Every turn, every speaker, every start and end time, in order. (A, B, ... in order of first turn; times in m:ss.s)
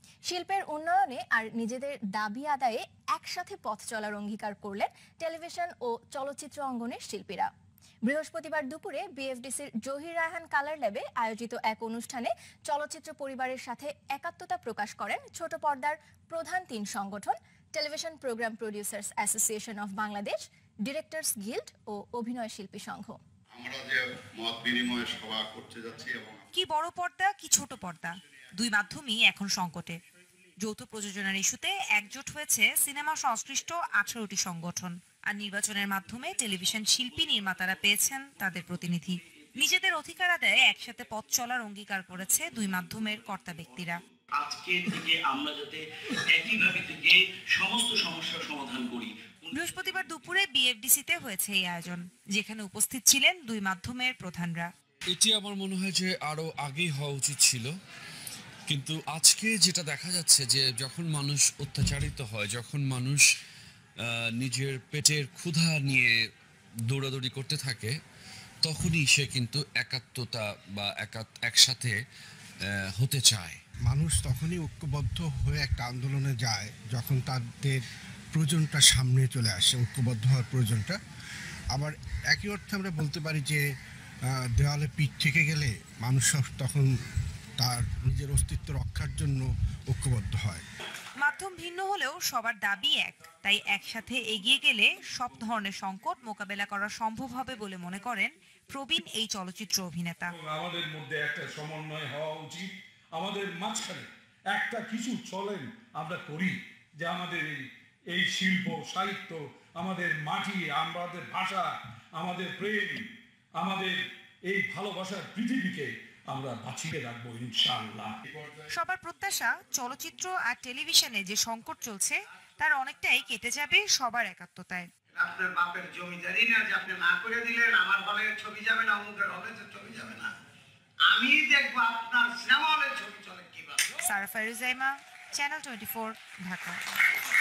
0:00.3-0:07.5 A
0:08.1-0:23.2 A
0:23.5-0:26.5 B
0:26.5-0:30.0 C
0:30.6-0:44.0 C
0:44.3-0:49.5 D
0:49.5-0:54.7 C
0:55.1-0:57.7 E
0:58.7-1:03.3 E
1:04.0-1:06.2 E
1:06.9-1:08.0 E
1:08.6-1:12.0 E
1:12.6-1:13.6 E
1:13.8-1:21.0 F
1:21.7-1:23.6 F
1:24.3-1:26.9 F
1:27.6-1:30.6 F
1:31.2-1:40.3 C
1:40.3-1:58.2 G
1:58.3-1:58.7 E
1:58.7-2:04.9 C
2:05.2-2:10.3 H
2:11.1-2:13.8 H
2:14.0-2:16.8 C